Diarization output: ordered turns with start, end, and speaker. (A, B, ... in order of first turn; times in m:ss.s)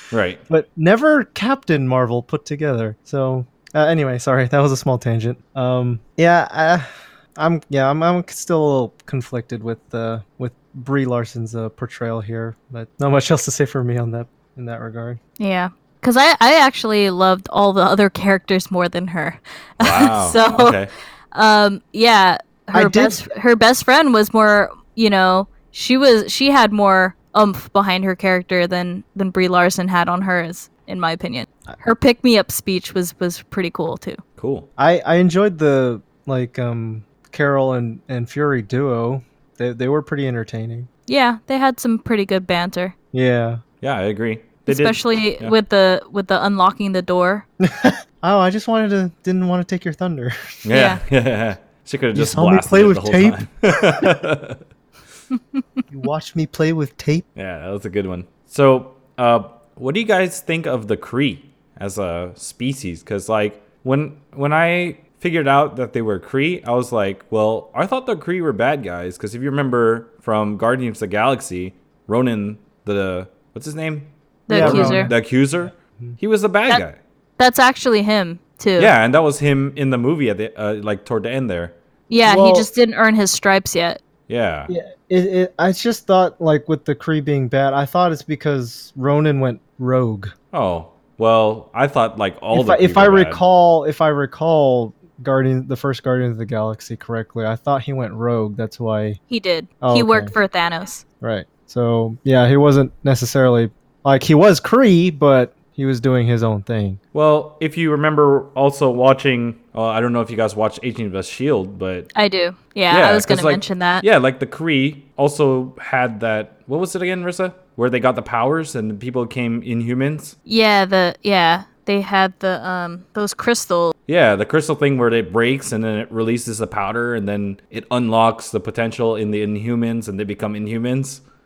0:00.1-0:00.4 A
0:00.5-0:15.2 B
0:15.4-0:20.8 C
0:19.8-0:20.9 A
0:21.3-0:34.2 C
0:22.7-0:23.2 B
0:34.4-0:34.7 A
0:34.8-0:40.9 B
0:41.1-0:42.9 C
0:43.1-0:43.6 B
0:43.8-0:45.5 A
0:44.6-0:47.4 C
0:47.6-0:50.6 B
0:50.6-0:54.6 A
0:50.7-0:51.0 C
0:52.1-0:54.2 B
0:55.9-0:57.2 B
0:57.4-1:17.0 A
1:14.5-1:15.1 C
1:14.5-1:16.2 B
1:17.4-1:18.9 C
1:18.8-1:21.7 A
1:22.1-1:24.0 C
1:22.2-1:22.7 B
1:24.3-1:24.7 A
1:24.7-1:30.3 B
1:30.5-1:33.4 A
1:32.5-1:39.2 B
1:39.3-1:41.0 C
1:39.8-1:40.3 B
1:41.2-1:47.0 B
1:47.1-1:52.1 A
1:52.1-1:54.0 C
1:52.9-2:00.4 A
2:00.4-2:03.9 C
2:04.1-2:11.2 A